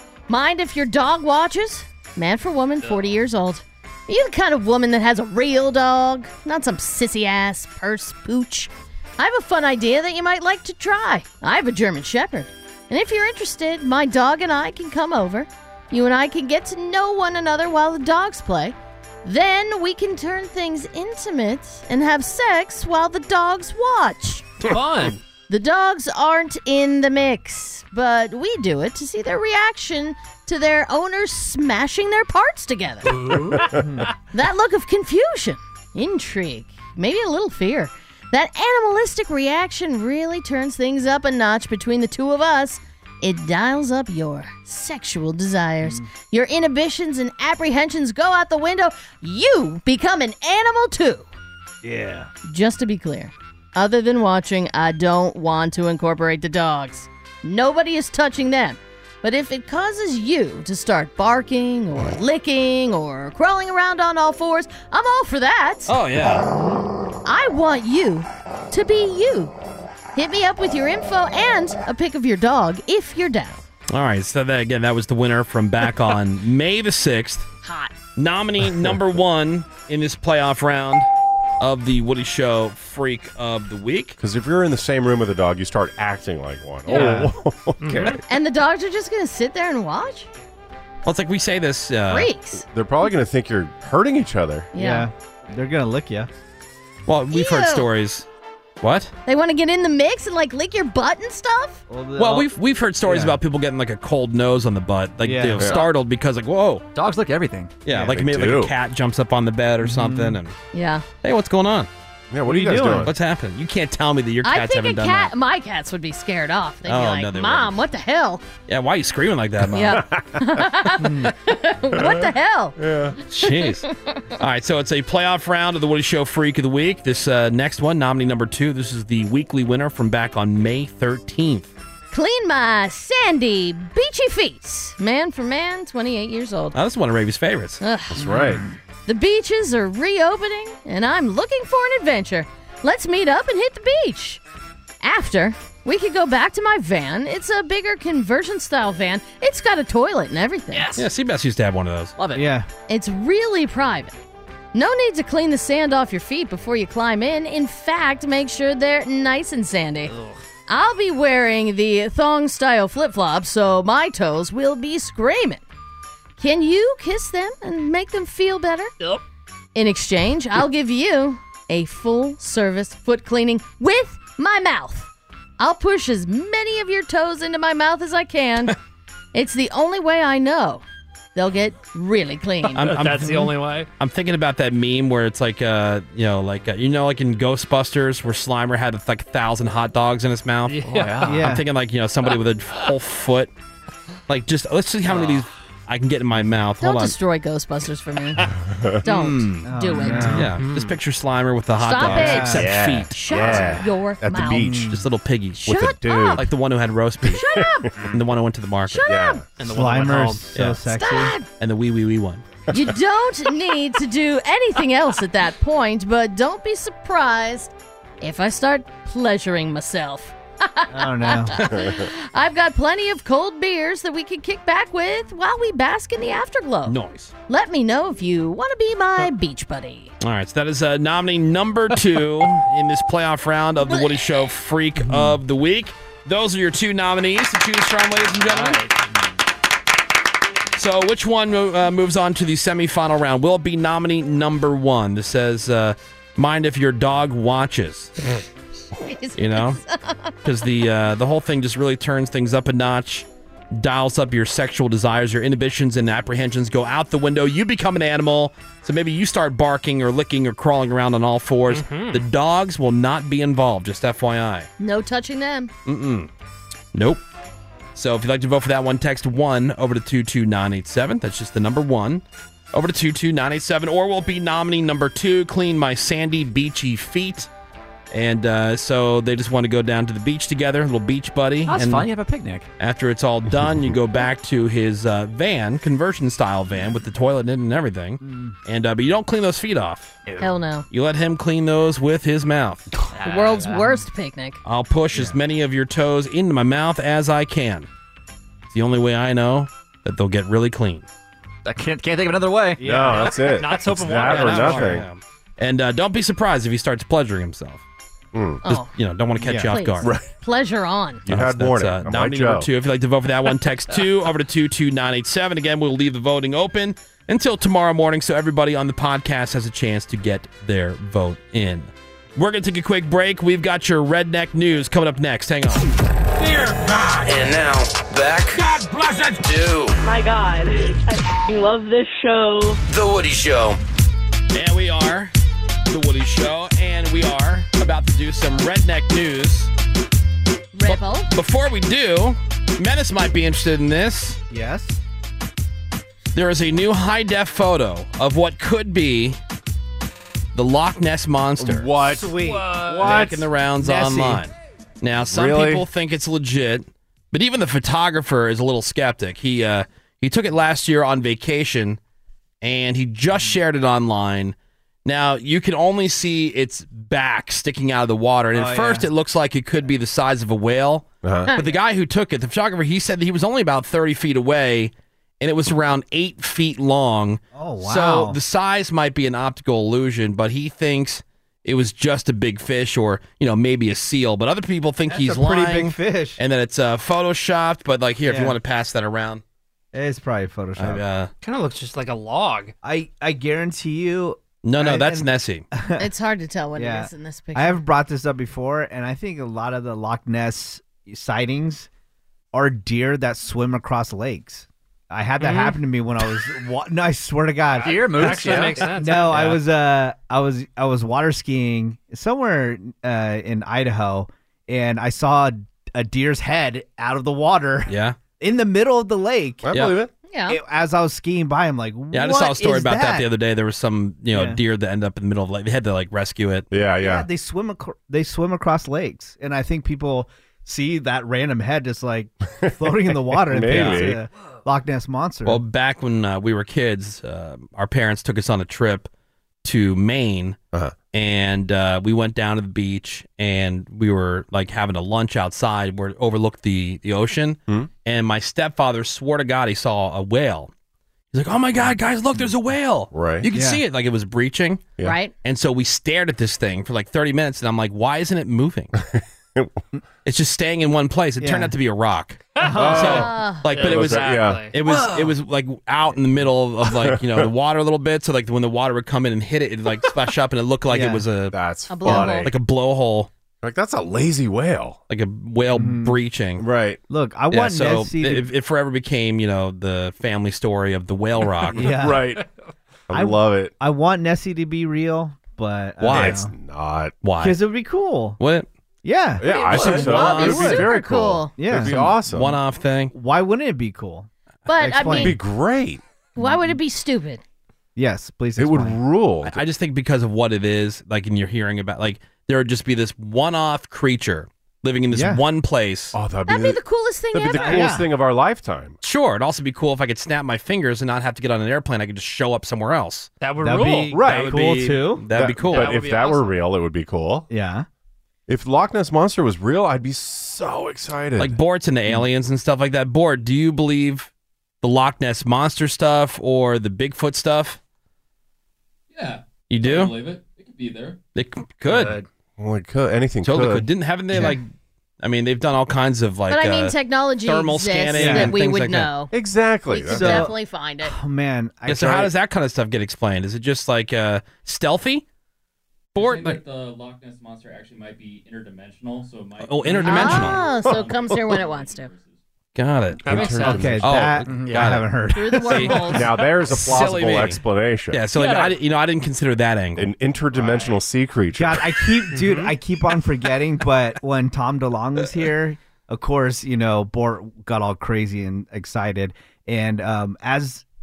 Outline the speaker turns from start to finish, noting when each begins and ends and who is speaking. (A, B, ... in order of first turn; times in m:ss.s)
0:00.3-0:24.5 A
0:24.6-0:25.2 B
0:25.5-0:33.2 A
0:33.3-0:33.8 C
0:33.5-0:34.1 D
0:34.3-0:51.3 A
0:45.8-0:46.1 D
0:51.8-0:52.3 D
0:52.5-1:05.9 A
1:05.9-1:06.5 E
1:07.2-1:09.5 A
1:10.2-1:13.6 A
1:13.9-1:17.5 E
1:17.6-1:17.9 A
1:18.1-1:21.1 E
1:21.6-1:24.2 E
1:24.2-1:28.2 C
1:26.9-1:27.2 A
1:26.9-1:27.3 D
1:27.8-1:28.1 B
1:28.3-1:30.3 A
1:31.1-1:32.3 E
1:32.1-1:32.6 A
1:32.7-1:34.7 C
1:34.7-1:35.1 A
1:34.8-1:36.3 D
1:37.1-1:38.3 E
1:37.3-1:37.9 A
1:38.8-1:39.1 E
1:39.3-1:41.8 A
1:41.9-1:42.5 D
1:42.2-1:46.8 E
1:43.0-1:43.4 D
1:45.2-1:45.8 D
1:45.6-1:45.8 C
1:46.9-1:47.7 F
1:47.8-1:50.6 E
1:47.9-1:48.7 C
1:49.8-1:50.4 D
1:50.7-1:51.0 A
1:51.2-1:51.9 E
1:52.3-1:53.1 C
1:52.4-1:53.1 D
1:53.0-1:55.3 E
1:54.4-1:58.4 A
1:56.9-1:57.8 E
1:58.7-2:00.0 E
1:59.7-2:02.8 A
2:00.1-2:00.4 C
2:01.0-2:01.3 D
2:01.9-2:03.2 C
2:03.3-2:03.9 E
2:03.4-2:04.2 A
2:04.4-2:11.7 E
2:12.1-2:16.8 A
2:16.7-2:17.8 E
2:17.8-2:18.3 A
2:18.1-2:18.6 C
2:18.2-2:18.6 D
2:19.1-2:24.4 A
2:25.0-2:30.9 A
2:30.7-2:31.0 F
2:30.9-2:32.1 E
2:32.2-2:32.5 F
2:32.4-2:32.7 D
2:32.9-2:34.2 A
2:34.7-2:40.1 A
2:40.7-2:45.6 A
2:46.4-2:48.9 A
2:49.8-2:58.8 A
2:59.3-3:00.8 A
3:01.4-3:02.9 A
3:02.7-3:10.8 E
3:02.8-3:03.9 B
3:10.7-3:11.4 B
3:10.9-3:11.4 F
3:11.3-3:11.6 D
3:11.3-3:13.5 E
3:14.3-3:17.2 E
3:16.8-3:18.5 A
3:18.6-3:19.0 C
3:19.0-3:20.4 A
3:19.0-3:23.8 E
3:19.6-3:20.6 D
3:21.8-3:24.7 A
3:22.1-3:22.7 D
3:22.6-3:24.9 C
3:24.6-3:25.1 D
3:24.7-3:25.8 E
3:25.6-3:26.4 A
3:25.7-3:26.4 C
3:26.4-3:27.4 E
3:27.3-3:27.9 A
3:27.4-3:27.9 C
3:28.0-3:29.1 E
3:28.9-3:29.4 A
3:29.0-3:29.4 C
3:29.6-3:30.4 B
3:29.6-3:31.4 D
3:30.6-3:30.8 E
3:30.9-3:31.5 A
3:31.6-3:32.4 E
3:32.7-3:47.0 A
3:40.9-3:41.5 D
3:41.6-3:41.9 E
3:41.7-3:42.0 C
3:46.8-3:47.3 E
3:47.5-3:50.1 A
3:50.2-3:58.8 E
3:55.0-3:55.4 D
3:58.4-3:58.9 B
4:00.8-4:08.1 E
4:09.0-4:10.4 A
4:09.4-4:09.8 E
4:10.4-4:24.7 E
4:21.7-4:22.2 B
4:24.8-4:25.7 A
4:25.9-4:26.3 E
4:26.9-4:27.2 E
4:28.0-4:37.5 E
4:38.1-4:42.1 E
4:41.7-4:42.7 F
4:42.8-4:50.2 E
4:48.2-4:48.6 D
4:50.3-4:50.5 F
4:50.4-4:50.9 A
4:50.9-4:52.9 E
4:53.1-4:54.0 F
4:53.2-4:54.6 A
4:54.6-4:57.9 E
4:55.1-4:55.4 D
4:58.7-5:01.0 E
5:01.6-5:02.8 F
5:02.8-5:03.6 D
5:02.8-5:05.1 C
5:03.3-5:05.0 B
5:04.2-5:07.8 E
5:08.3-5:08.6 C
5:08.7-5:10.1 E
5:09.4-5:09.7 D
5:09.7-5:11.2 A
5:10.0-5:10.3 C
5:11.3-5:12.7 C
5:11.3-5:25.9 E
5:27.2-5:28.7 G
5:29.4-5:30.0 G
5:30.0-5:32.8 H
5:32.9-5:33.8 G
5:34.5-5:35.3 E
5:35.9-5:39.7 E
5:40.7-5:41.3 A
5:40.8-5:44.4 E
5:44.5-5:45.0 D
5:46.4-5:49.4 E
5:50.6-5:51.9 E
5:51.6-5:53.4 C
5:52.0-5:54.4 D
5:52.4-5:53.3 B
5:53.0-6:02.0 E
5:55.3-5:55.9 C
6:02.6-6:29.4 E
6:08.5-6:09.1 D
6:11.2-6:11.5 C
6:17.5-6:18.4 D
6:25.1-6:26.4 D
6:28.2-6:28.6 D
6:29.9-6:31.0 D
6:30.8-6:31.3 E
6:31.4-6:32.7 B
6:32.8-6:36.1 D
6:34.6-6:35.6 E
6:36.0-6:37.8 A
6:36.8-6:41.9 D
6:42.5-6:59.7 D
6:45.4-6:45.7 B
6:47.8-6:49.5 B
6:47.8-6:49.4 F
6:48.2-6:48.9 C
6:57.9-6:58.2 E
6:59.6-7:00.1 C
6:59.7-7:00.0 E
7:00.3-7:00.6 A
7:00.5-7:03.3 D
7:02.1-7:06.7 E
7:04.3-7:04.6 D
7:06.7-7:07.3 C
7:07.0-7:15.6 D
7:13.4-7:14.2 C
7:13.7-7:14.1 E
7:15.4-7:19.1 E
7:19.6-7:20.6 E
7:21.1-7:30.7 E
7:31.3-7:34.8 E
7:33.1-7:33.5 C
7:33.4-7:33.8 D
7:35.0-7:35.3 A
7:35.4-7:39.0 E
7:39.0-7:39.8 C
7:40.2-7:53.3 E
7:41.4-7:41.7 D
7:42.6-7:43.3 D
7:42.6-7:43.0 B
7:42.8-7:44.7 C
7:43.0-7:43.7 A
7:43.7-7:44.7 B
7:46.8-7:47.5 C
7:50.9-7:51.2 D
7:51.5-7:52.5 C
7:51.9-7:52.5 A
7:53.6-7:55.0 C
7:55.1-7:56.6 E
7:55.7-7:56.2 D
7:56.6-7:57.0 C
7:57.1-7:58.5 D
7:57.5-8:01.9 E
8:01.7-8:02.4 D
8:01.8-8:02.4 C
8:03.1-8:03.7 C
8:03.1-8:06.5 D
8:06.0-8:06.4 E
8:06.1-8:07.1 C
8:07.2-8:07.6 E
8:07.4-8:08.4 D
8:08.4-8:08.7 E
8:09.0-8:10.9 D
8:09.4-8:12.6 C
8:09.7-8:11.6 A
8:09.7-8:10.0 B
8:11.6-8:12.2 D
8:12.3-8:13.1 E
8:13.1-8:15.4 D
8:14.7-8:15.4 A
8:15.0-8:16.0 C
8:16.4-8:17.4 A
8:16.4-8:16.8 D
8:18.0-8:19.0 D
8:18.6-8:19.6 C
8:19.4-8:26.1 E
8:25.1-8:25.4 D
8:26.1-8:29.0 C
8:26.4-8:27.9 A
8:27.5-8:28.1 D
8:29.0-8:33.3 E
8:33.4-8:34.4 B
8:33.6-8:35.3 D
8:34.2-8:36.0 E
8:35.3-8:37.5 C
8:35.7-8:36.6 B
8:37.5-8:37.9 D
8:38.5-8:41.6 C
8:41.4-8:44.3 E
8:44.8-8:47.8 E
8:49.1-8:51.2 I
8:49.7-8:50.1 E
8:51.4-8:52.2 E
8:52.6-8:53.9 C
8:53.4-8:54.7 E
8:55.2-8:59.1 E
8:56.5-8:59.3 A
8:58.2-8:58.6 D
8:59.3-9:00.5 C
8:59.9-9:01.1 A
9:00.1-9:02.3 D
9:01.9-9:05.2 E
9:06.1-9:06.6 E
9:06.1-9:12.4 I
9:09.6-9:10.6 E
9:10.0-9:12.1 A
9:10.6-9:11.4 C
9:12.7-9:15.0 E
9:13.2-9:14.0 B
9:13.2-9:14.3 C
9:13.6-9:16.2 D
9:14.4-9:14.9 F
9:15.3-9:16.3 A
9:15.6-9:16.1 E
9:16.1-9:18.2 C
9:16.7-9:20.1 E
9:18.4-9:18.7 B
9:20.0-9:21.9 C
9:20.6-9:21.0 B
9:21.6-9:30.8 D